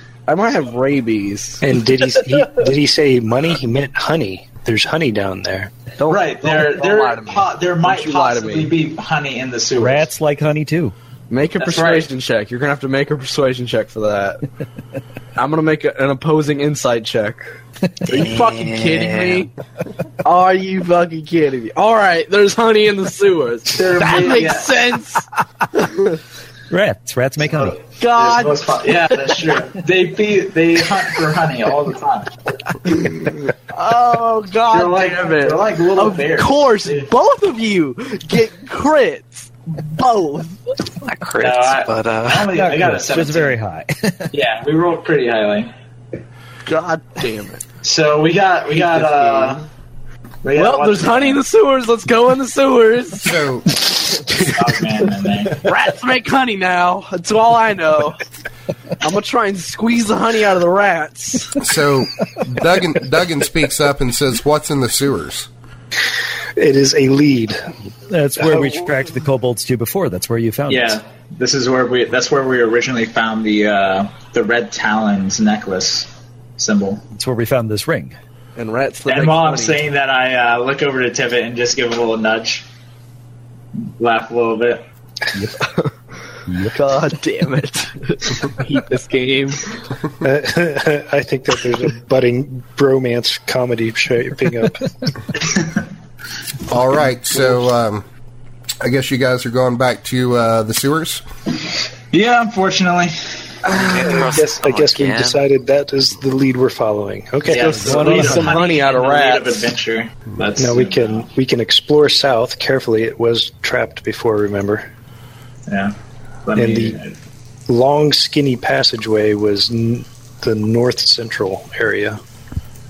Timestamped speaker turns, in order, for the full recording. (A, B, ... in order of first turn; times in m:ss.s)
0:00.3-0:01.6 A
0:01.6-0:05.7 B
0:06.0-0:08.7 A
0:06.1-0:10.1 C
0:09.8-0:10.9 D
0:11.3-0:14.4 A
0:11.6-0:12.1 C
0:15.4-0:17.5 A
0:18.0-0:19.5 A
0:18.1-0:19.5 E
0:20.2-0:25.2 A
0:23.7-0:24.9 C
0:26.7-0:27.8 D
0:28.0-0:29.4 A
0:28.0-0:32.4 C
0:33.7-0:40.6 A
0:34.7-0:37.1 C
0:41.0-0:42.5 E
0:41.4-0:43.6 C
0:42.5-0:44.3 D
0:44.3-0:45.7 C
0:46.6-0:47.6 A
0:47.8-0:49.6 C
0:48.9-0:49.6 A
0:50.4-0:51.4 C
0:50.6-0:53.4 A
0:53.2-0:53.7 F
0:54.1-0:54.6 A
0:54.4-0:55.6 C
0:55.6-0:58.2 A
0:59.0-1:01.6 A
1:01.6-1:05.5 F
1:06.6-1:07.6 B
1:08.1-1:11.0 D
1:10.7-1:17.0 C
1:17.1-1:18.1 D
1:18.6-1:19.8 A
1:19.1-1:22.6 C
1:24.0-1:24.8 C
1:25.3-1:25.6 D
1:26.5-1:26.8 D
1:26.7-1:29.7 A
1:30.2-1:35.1 B
1:36.7-1:38.0 F
1:38.8-1:41.2 F
1:42.1-1:43.1 C
1:43.6-1:47.8 B
1:43.7-1:45.4 E
1:47.5-1:51.3 C
1:47.6-1:49.6 A
1:47.7-1:48.6 D
1:50.6-1:54.9 B
1:55.7-1:57.2 C
1:56.6-1:57.0 B
1:57.7-2:02.2 B